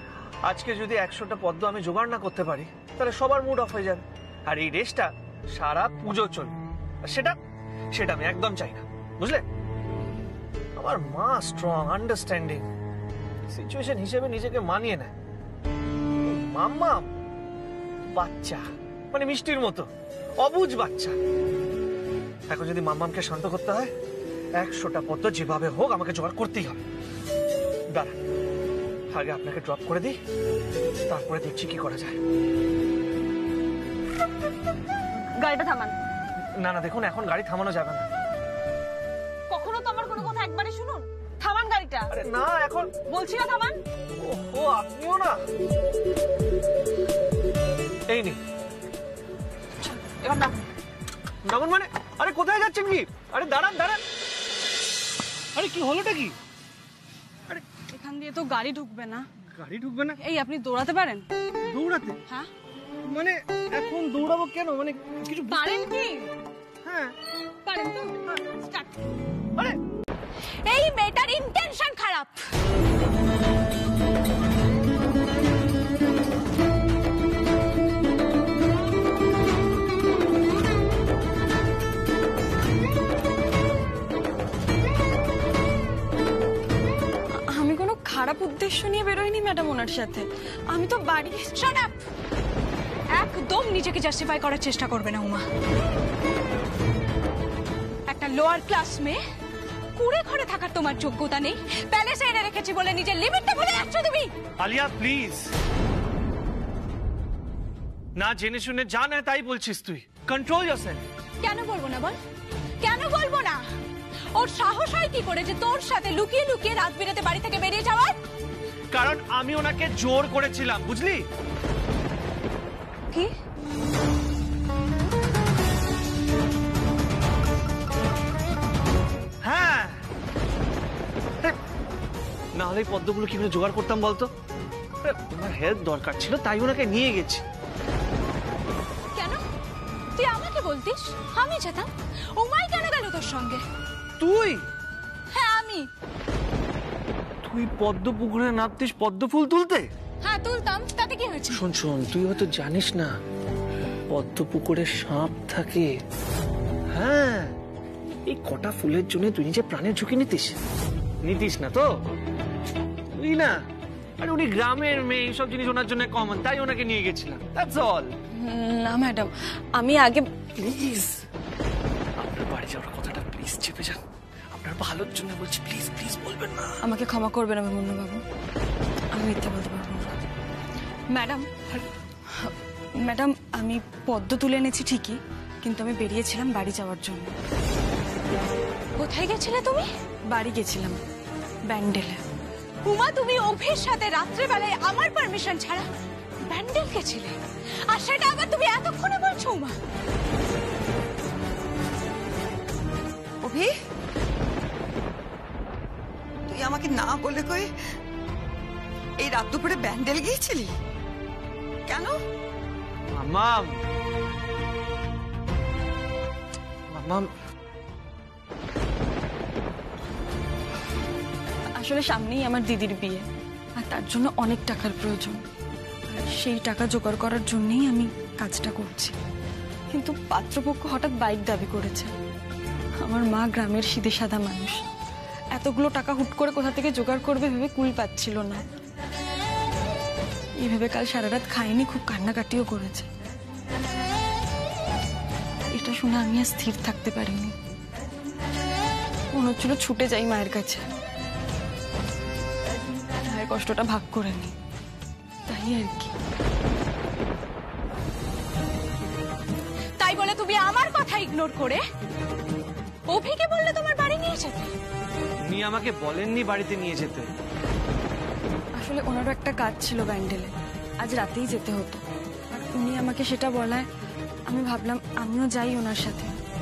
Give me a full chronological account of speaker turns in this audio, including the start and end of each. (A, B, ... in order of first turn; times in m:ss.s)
0:00.4-0:07.4 A
0:07.9-0:09.4 A
0:10.8-0:12.6 A
0:13.5-0:15.1 A
0:16.3-0:17.1 A
0:18.1-0:19.9 A
0:20.4-0:21.2 A
0:22.5-0:23.9 A
0:24.6-0:26.8 A
0:29.1-0:30.2 A
0:31.1-0:32.2 A
0:35.4-0:35.9 B
0:36.6-0:38.0 A
0:39.5-0:42.1 B
0:42.1-0:42.9 A
0:43.1-0:43.8 B
0:44.2-0:45.4 A
0:48.1-0:48.4 A
0:50.1-0:50.5 B
0:51.4-0:54.0 A
0:55.6-0:56.3 A
0:57.9-0:59.2 B
0:59.6-1:00.2 A
1:00.2-1:01.3 B
1:01.7-1:02.2 A
1:03.1-1:05.6 A
1:05.5-1:06.3 B
1:06.8-1:07.1 A
1:07.6-1:08.9 B
1:10.6-1:12.4 C
1:27.4-1:31.5 B
1:31.5-1:32.0 C
1:33.1-1:35.4 C
1:38.1-1:39.2 C
1:40.0-1:44.3 C
1:44.6-1:45.5 A
1:48.2-1:51.0 A
1:51.4-1:52.2 C
1:52.8-1:53.6 C
1:54.4-1:58.2 C
1:58.9-2:01.2 A
2:09.4-2:10.0 A
2:12.6-2:14.3 A
2:15.0-2:17.4 A
2:20.2-2:23.6 C
2:24.2-2:24.6 A
2:25.3-2:25.9 C
2:27.4-2:29.9 A
2:30.2-2:31.6 C
2:31.5-2:33.1 A
2:33.9-2:36.0 A
2:36.9-2:37.6 A
2:38.3-2:40.5 A
2:41.2-2:41.9 A
2:43.2-2:43.6 A
2:44.2-2:48.1 A
2:48.3-2:50.4 B
2:50.6-2:51.1 A
2:52.2-2:54.0 A
2:54.5-2:56.8 A
2:56.8-2:58.2 B
2:59.1-3:00.2 B
3:01.1-3:07.3 B
3:09.0-3:09.8 C
3:10.3-3:11.0 B
3:11.7-3:12.2 B
3:12.8-3:15.9 C
3:16.4-3:17.4 C
3:17.9-3:19.8 C
3:23.4-3:23.7 D
3:26.5-3:27.7 D
3:29.2-3:30.7 D
3:31.9-3:32.2 D
3:33.2-3:33.7 A
3:36.9-3:37.3 A
3:41.8-3:43.2 B
3:43.8-3:45.4 B
3:46.1-3:49.1 B
3:49.9-3:52.1 B
3:53.0-3:54.8 B
3:55.5-3:58.6 B
4:00.6-4:03.1 B
4:05.7-4:07.5 B
4:09.3-4:10.8 B
4:13.2-4:14.5 B
4:15.4-4:16.1 B
4:20.0-4:21.8 C
4:23.1-4:24.7 C
4:25.5-4:27.3 A
4:28.8-4:30.5 B
4:31.0-4:33.9 B
4:34.5-4:36.3 B